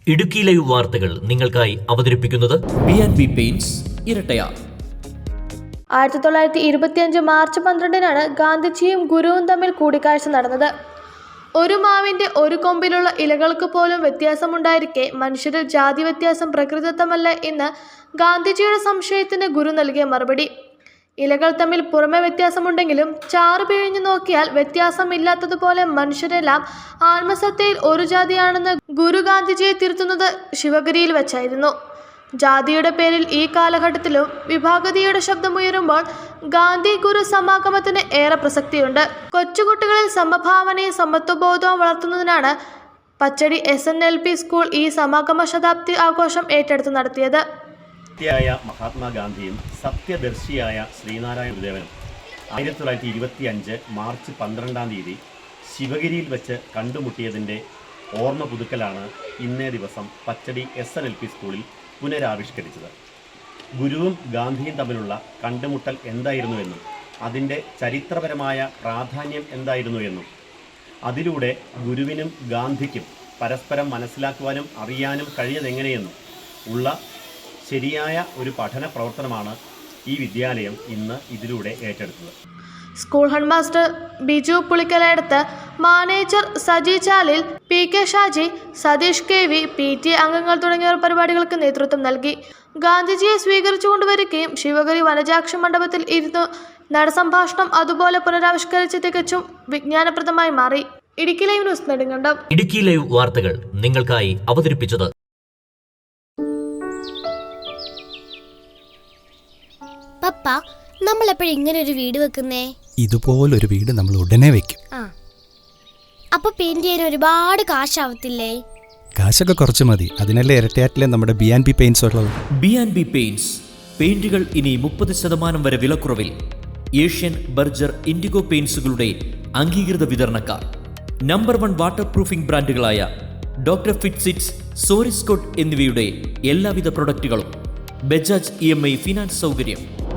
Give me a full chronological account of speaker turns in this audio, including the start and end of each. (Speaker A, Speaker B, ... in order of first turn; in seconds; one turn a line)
Speaker A: 0.1-2.6
Speaker B: 0.2-1.0
Speaker B: 1.9-4.5
Speaker C: 6.0-10.7
Speaker C: 11.6-17.7
Speaker C: 18.2-20.5
Speaker C: 21.2-31.7
Speaker C: 32.4-42.5
Speaker C: 43.2-47.4
Speaker D: 48.2-51.9
Speaker D: 52.5-55.2
Speaker D: 55.7-57.6
Speaker D: 58.2-62.9
Speaker D: 63.8-70.3
Speaker D: 71.1-76.1
Speaker D: 76.7-76.9
Speaker D: 77.6-79.5
Speaker D: 80.1-82.3
Speaker C: 83.0-102.4
Speaker A: 102.5-105.1
Speaker B: 102.6-103.9
Speaker B: 104.5-105.0
Speaker E: 110.2-112.7
Speaker F: 113.0-114.8
Speaker E: 116.3-118.6
Speaker F: 119.2-122.3
Speaker B: 122.6-126.3
Speaker B: 127.0-130.6
Speaker B: 131.3-133.1
Speaker B: 133.7-137.5
Speaker B: 138.1-139.8